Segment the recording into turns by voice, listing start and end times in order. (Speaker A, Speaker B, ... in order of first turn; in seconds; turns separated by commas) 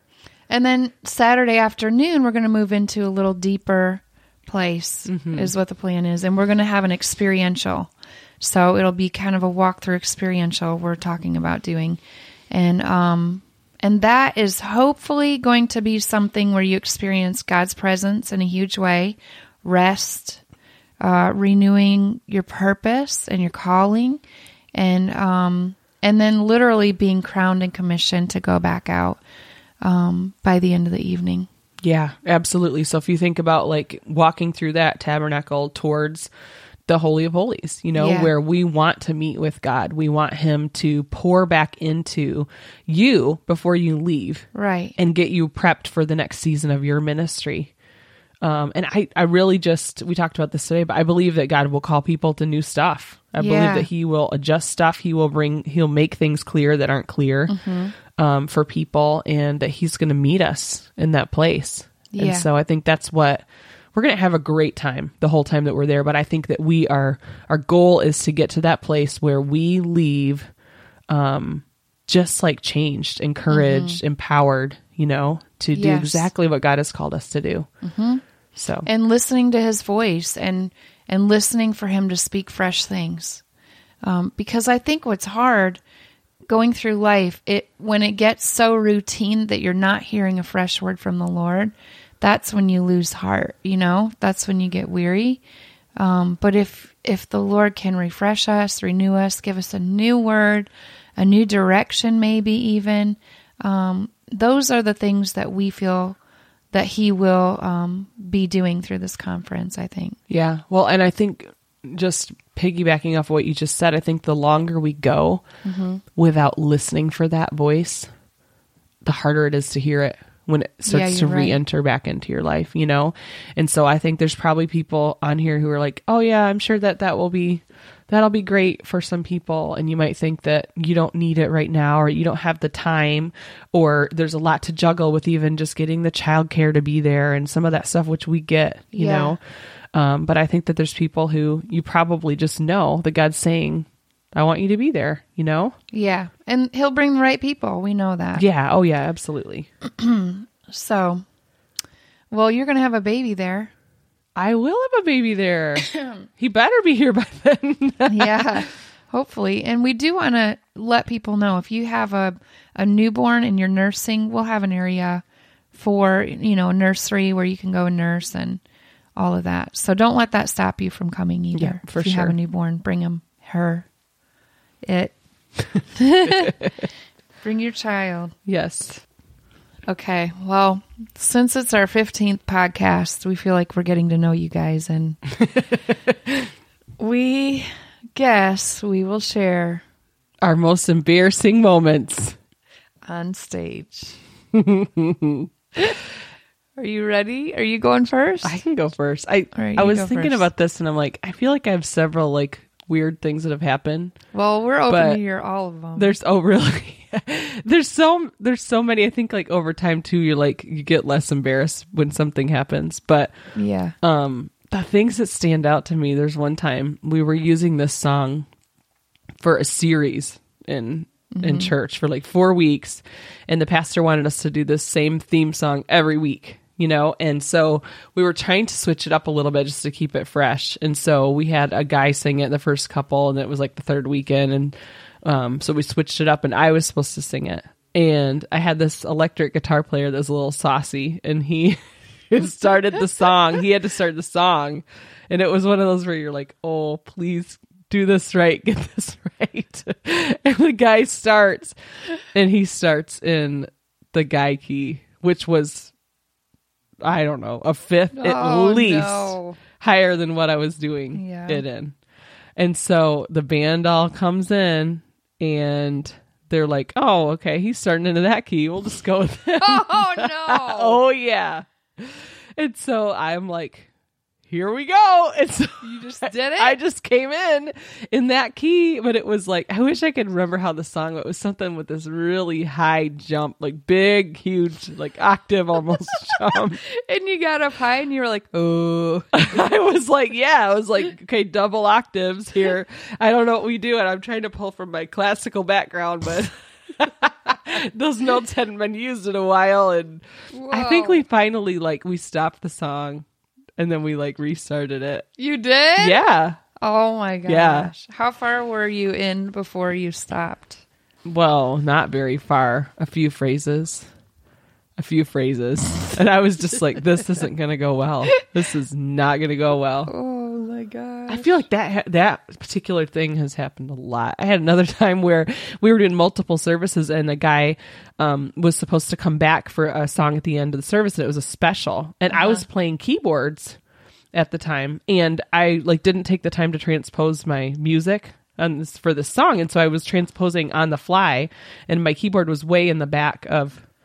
Speaker A: 0.5-20.4, Speaker B: 5.1-5.5, Speaker A: 21.0-24.2, Speaker A: 24.7-29.2, Speaker A: 29.8-31.5, Speaker B: 31.8-36.3, Speaker B: 36.9-47.7, Speaker A: 37.9-38.3, Speaker A: 44.5-45.0, Speaker B: 48.4-70.5, Speaker A: 53.4-53.9, Speaker A: 57.5-57.9, Speaker A: 62.1-62.5, Speaker B: 71.1-77.7, Speaker A: 73.5-74.0, Speaker A: 75.7-76.3, Speaker A: 77.8-78.2, Speaker B: 78.5-78.9, Speaker A: 78.8-83.4, Speaker A: 84.0-85.8, Speaker A: 86.5-95.4, Speaker A: 96.0-106.2, Speaker A: 106.7-110.2, Speaker B: 110.3-115.4, Speaker A: 115.6-116.0, Speaker B: 116.1-118.1, Speaker B: 119.0-139.4, Speaker A: 120.8-121.6, Speaker A: 138.9-139.4, Speaker B: 139.9-145.7, Speaker A: 145.9-148.4, Speaker B: 148.4-149.7, Speaker A: 149.8-151.2, Speaker A: 152.3-153.7, Speaker B: 154.3-158.6, Speaker A: 158.1-168.6, Speaker A: 169.2-173.9, Speaker B: 171.5-172.3, Speaker A: 174.8-175.2, Speaker A: 175.8-176.6, Speaker A: 177.4-178.3, Speaker B: 178.4-179.0, Speaker A: 179.9-185.2, Speaker A: 187.0-189.8, Speaker B: 190.4-192.3, Speaker A: 193.0-194.2, Speaker B: 194.5-195.5, Speaker A: 196.8-198.6, Speaker B: 198.4-204.2, Speaker A: 199.5-200.5, Speaker A: 204.3-206.2, Speaker B: 204.9-205.2, Speaker B: 205.9-213.5, Speaker A: 213.5-213.9, Speaker B: 214.0-218.5, Speaker B: 219.4-241.8, Speaker A: 221.3-221.7, Speaker B: 242.3-255.9, Speaker B: 257.0-261.9, Speaker A: 258.1-259.6, Speaker A: 261.1-261.6, Speaker B: 262.6-273.9, Speaker A: 269.6-271.0, Speaker B: 274.5-286.8, Speaker A: 275.8-276.8, Speaker A: 286.9-289.4, Speaker B: 289.3-303.2, Speaker A: 300.5-301.2, Speaker B: 303.8-305.3, Speaker A: 305.4-306.2, Speaker B: 306.0-306.6, Speaker A: 306.8-310.8, Speaker B: 307.4-307.9, Speaker B: 311.2-314.1, Speaker B: 315.0-320.1, Speaker A: 320.1-321.5, Speaker B: 321.3-333.8, Speaker A: 332.3-332.6, Speaker B: 334.3-343.8